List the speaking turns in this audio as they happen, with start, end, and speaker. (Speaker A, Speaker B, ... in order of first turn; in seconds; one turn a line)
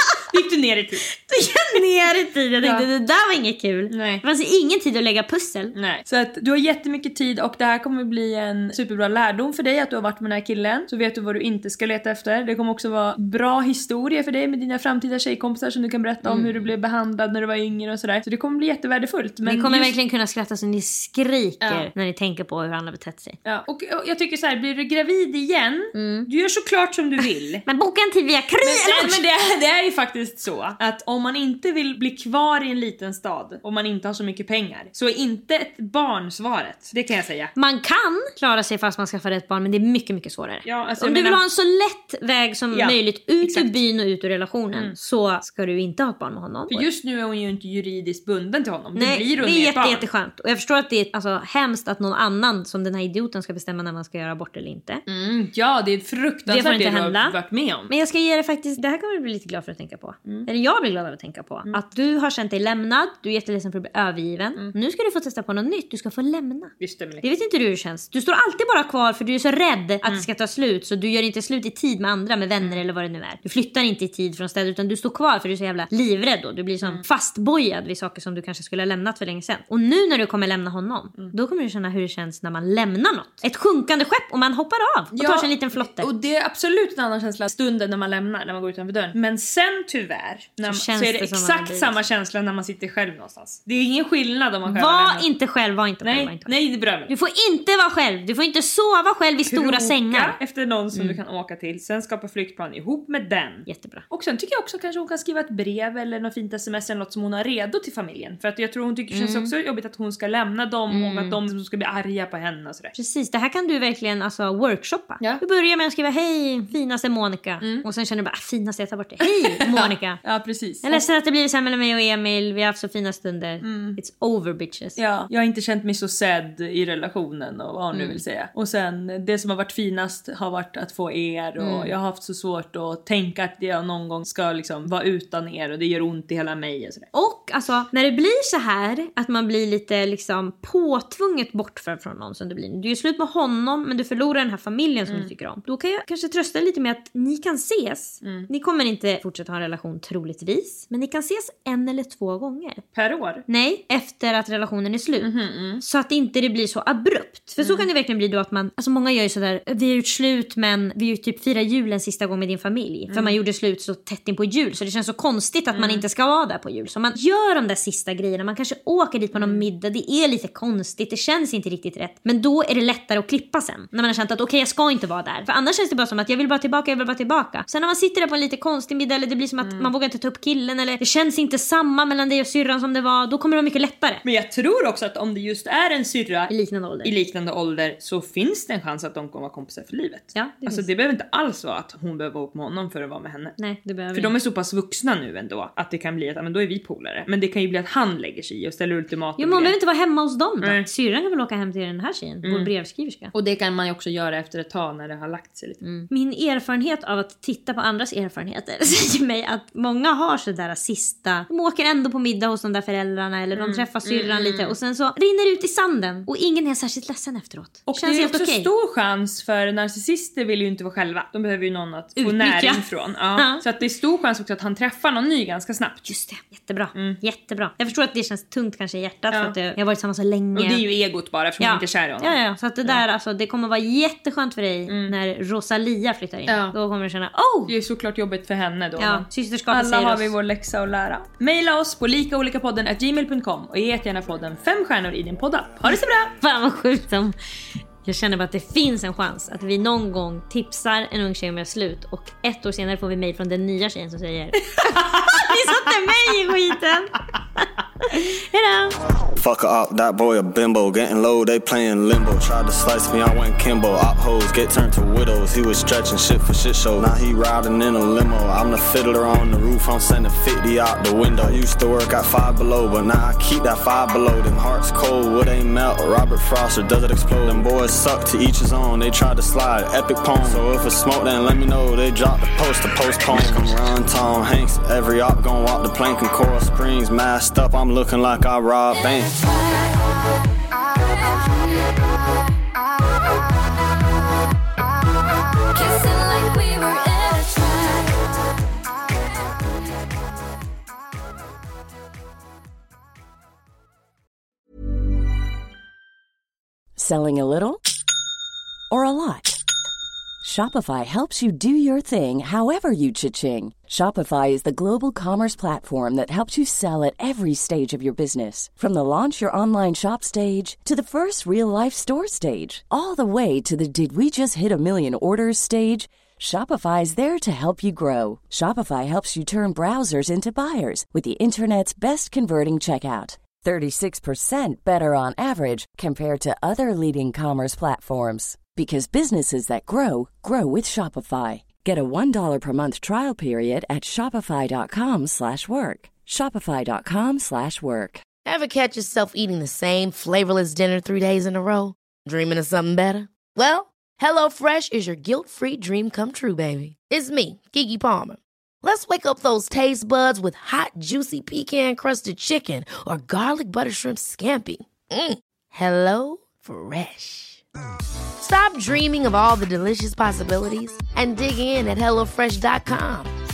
Speaker A: 0.3-1.1
Speaker B: 1.2-5.7
Speaker A: 2.6-2.9
Speaker A: 3.9-4.2
Speaker A: 5.7-19.9
Speaker B: 16.2-16.5
Speaker B: 19.5-23.4
Speaker A: 21.6-21.9
Speaker A: 23.4-27.6
Speaker B: 25.9-26.3
Speaker B: 27.7-29.2
Speaker A: 28.6-37.5
Speaker B: 37.5-46.9
Speaker A: 40.6-41.4
Speaker A: 42.7-43.8
Speaker A: 46.7-50.0
Speaker B: 49.0-55.0
Speaker A: 55.1-57.9
Speaker B: 56.5-57.4
Speaker B: 57.9-86.1
Speaker A: 66.8-67.2
Speaker A: 85.1-95.3
Speaker B: 90.6-91.9
Speaker B: 94.7-96.5
Speaker A: 96.0-97.1
Speaker B: 97.1-100.4
Speaker A: 99.5-112.9
Speaker B: 100.9-101.2
Speaker B: 103.7-104.0
Speaker B: 109.1-109.5
Speaker B: 110.9-111.4
Speaker B: 113.0-120.2
Speaker A: 117.6-117.9
Speaker A: 119.2-121.0
Speaker B: 120.8-125.0
Speaker A: 123.6-124.0
Speaker A: 125.0-137.1
Speaker B: 127.9-128.2
Speaker B: 131.6-131.9
Speaker B: 137.1-152.8
Speaker A: 148.2-148.5
Speaker A: 152.9-153.4
Speaker B: 153.5-184.2
Speaker A: 155.2-155.8
Speaker A: 157.6-157.9
Speaker A: 163.1-163.4
Speaker A: 165.7-166.0
Speaker A: 169.3-169.7
Speaker A: 179.6-179.9
Speaker A: 184.2-193.6
Speaker B: 186.5-187.2
Speaker B: 190.3-190.9
Speaker B: 193.6-194.3
Speaker A: 194.1-199.8
Speaker B: 199.4-203.3
Speaker A: 200.6-200.9
Speaker A: 202.4-202.7
Speaker A: 203.3-205.8
Speaker B: 205.8-218.7
Speaker A: 213.6-214.8
Speaker A: 217.9-226.1
Speaker B: 222.2-223.6
Speaker B: 226.1-230.8
Speaker A: 226.9-227.2
Speaker A: 229.3-229.6
Speaker A: 230.6-233.0
Speaker B: 231.6-237.8
Speaker A: 234.9-235.1
Speaker A: 236.5-236.8
Speaker A: 237.7-246.3
Speaker B: 239.0-240.3
Speaker B: 245.9-247.4
Speaker B: 248.0-257.1
Speaker A: 254.7-255.5
Speaker B: 258.1-259.0
Speaker C: 259.4-289.5
Speaker D: 307.0-307.8
Speaker D: 308.9-309.6
Speaker D: 310.4-348.2
Speaker E: 348.4-367.6
Speaker E: 368.4-373.3